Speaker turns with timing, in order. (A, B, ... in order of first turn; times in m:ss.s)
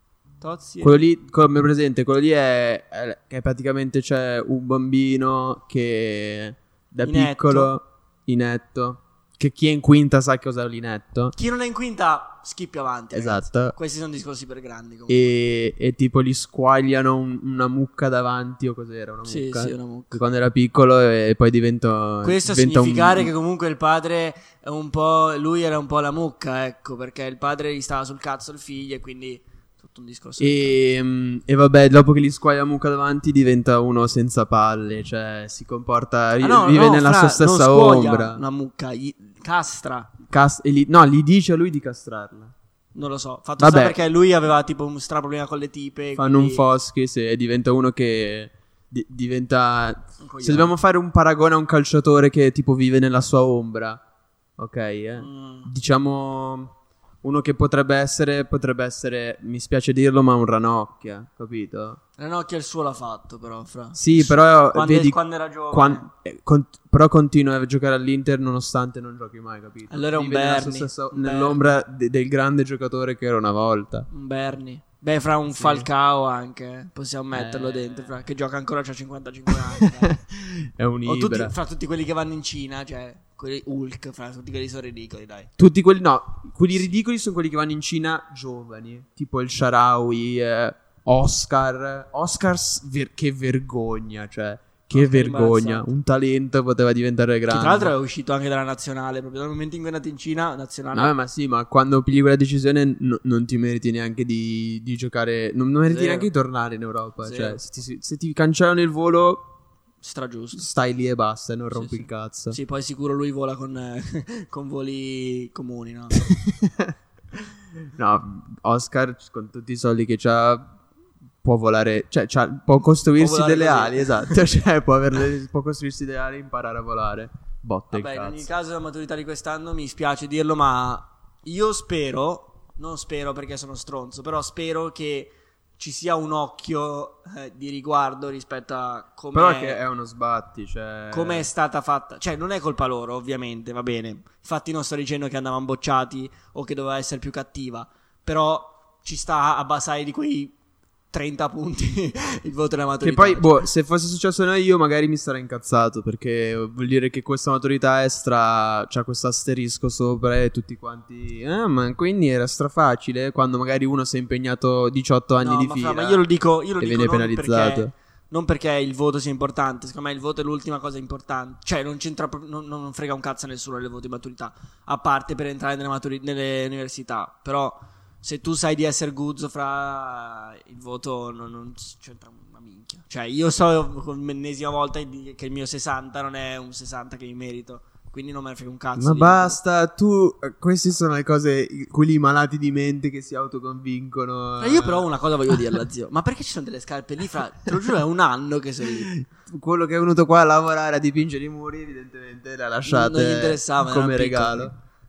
0:00.4-0:01.0 A
0:00.8-0:11.3 B
0:07.0-0:07.7 A
0:11.3-0:15.3 A
0:13.1-0:13.7 B
0:15.1-0:23.3 B
0:19.2-0:20.2 A
0:22.2-0:30.8 A
0:30.4-0:38.4 B
0:36.4-0:40.1 A
0:40.3-0:42.5 B
0:42.9-0:46.7 A
0:43.6-0:44.0 B
0:46.2-0:54.0 B
0:50.2-0:50.7 A
0:54.6-1:02.0 B
0:55.2-0:55.7 A
1:02.2-1:06.1 A
1:03.9-1:05.2 B
1:05.7-1:14.1 B
1:09.9-1:11.6 A
1:14.1-1:20.2 A
1:15.6-1:15.9 B
1:17.3-1:18.1 B
1:19.5-1:21.5 B
1:21.0-1:25.5 A
1:25.6-1:37.9 B
1:34.9-1:35.9 A
1:37.5-1:41.1 A
1:40.9-1:49.5 B
1:45.8-1:46.3 A
1:47.2-1:47.6 A
1:50.0-1:50.7 A
1:50.5-1:52.6 B
1:51.7-1:56.3 A
1:56.2-1:57.4 B
1:57.9-2:00.7 B
2:01.4-2:08.5 B
2:03.2-2:04.4 A
2:07.9-2:19.8 A
2:19.3-2:21.5 B
2:21.1-2:30.5 A
2:31.1-2:33.6 A
2:33.0-2:46.2 B
2:45.4-3:09.6 A
2:46.8-2:47.9 B
3:09.0-3:15.8 B
3:14.6-3:19.1 A
3:18.8-3:24.7 B
3:22.8-3:24.7 A